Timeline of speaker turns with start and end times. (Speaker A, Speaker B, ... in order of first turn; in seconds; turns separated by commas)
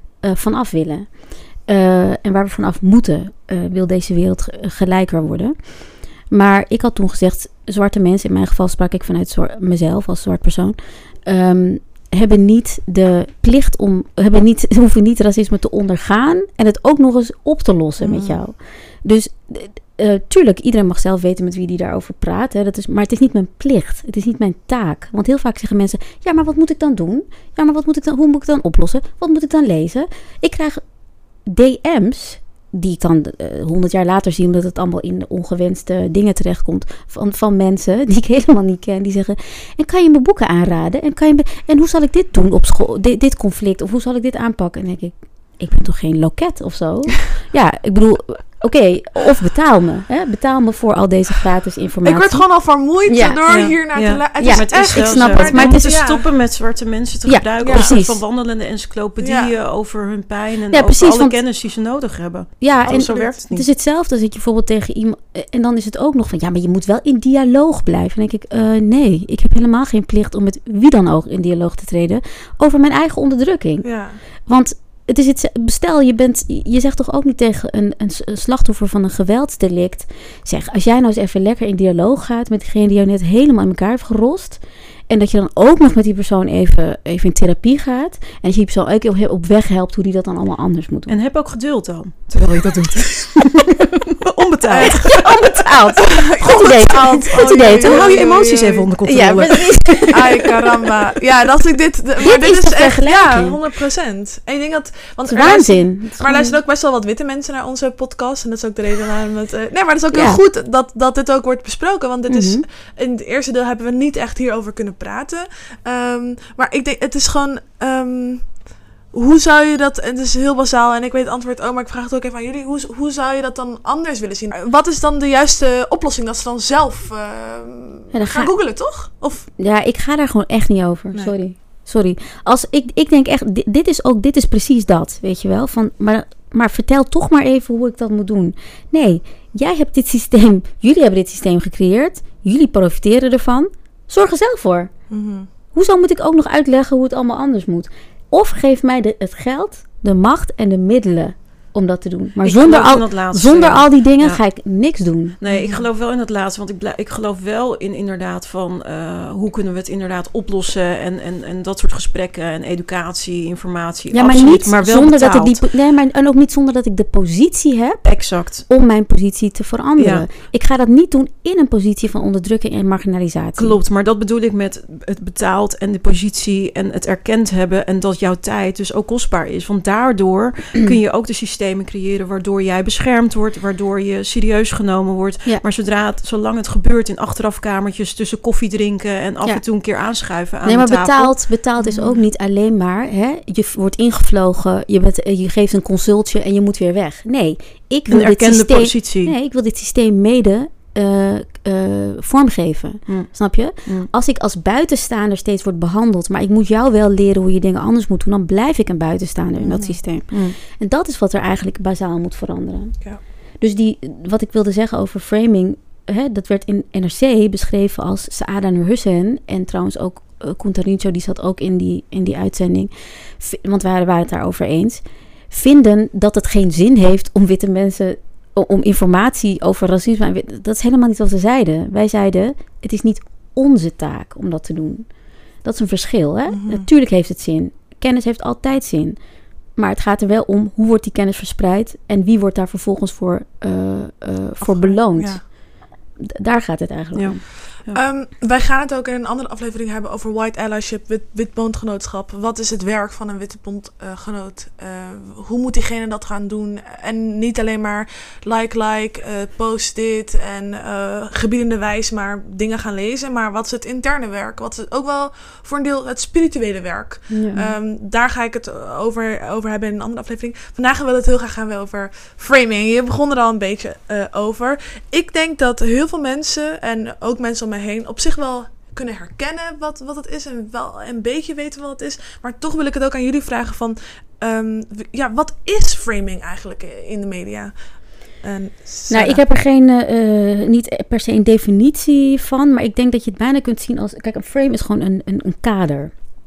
Speaker A: 0.2-30.8, Speaker B: 18.0-18.4, Speaker A: 31.4-53.5, Speaker B: 52.0-56.3, Speaker C: 53.5-63.7, Speaker A: 54.4-56.0, Speaker A: 57.3-58.2, Speaker B: 57.6-57.9, Speaker B: 59.2-59.5, Speaker A: 60.7-61.4, Speaker A: 62.6-73.9, Speaker B: 73.8-74.2, Speaker A: 74.5-91.2, Speaker C: 91.1-100.4, Speaker A: 94.7-98.1, Speaker B: 96.3-98.9, Speaker A: 99.1-100.3, Speaker B: 100.1-129.5, Speaker A: 102.2-103.6, Speaker A: 105.3-106.6, Speaker A: 110.1-110.4, Speaker A: 112.3-112.7, Speaker A: 128.1-128.5, Speaker A: 129.6-144.9, Speaker B: 145.1-145.5, Speaker A: 145.7-155.4, Speaker C: 152.4-154.4, Speaker C: 155.4-165.6, Speaker B: 155.5-155.9, Speaker A: 164.1-173.8, Speaker C: 168.0-168.7, Speaker C: 170.0-170.3, Speaker C: 173.6-191.4, Speaker A: 190.7-213.0, Speaker B: 191.8-192.2, Speaker C: 198.1-199.3, Speaker C: 203.1-203.3, Speaker C: 203.8-204.1, Speaker B: 209.6-210.0, Speaker C: 210.3-210.6, Speaker A: 213.6-235.1, Speaker A: 235.6-239.2, Speaker B: 236.5-236.9, Speaker A: 239.7-245.7, Speaker B: 244.6-245.4, Speaker A: 246.2-247.4, Speaker C: 247.2-248.0, Speaker B: 247.9-289.4, Speaker A: 267.3-267.7, Speaker A: 289.1-296.1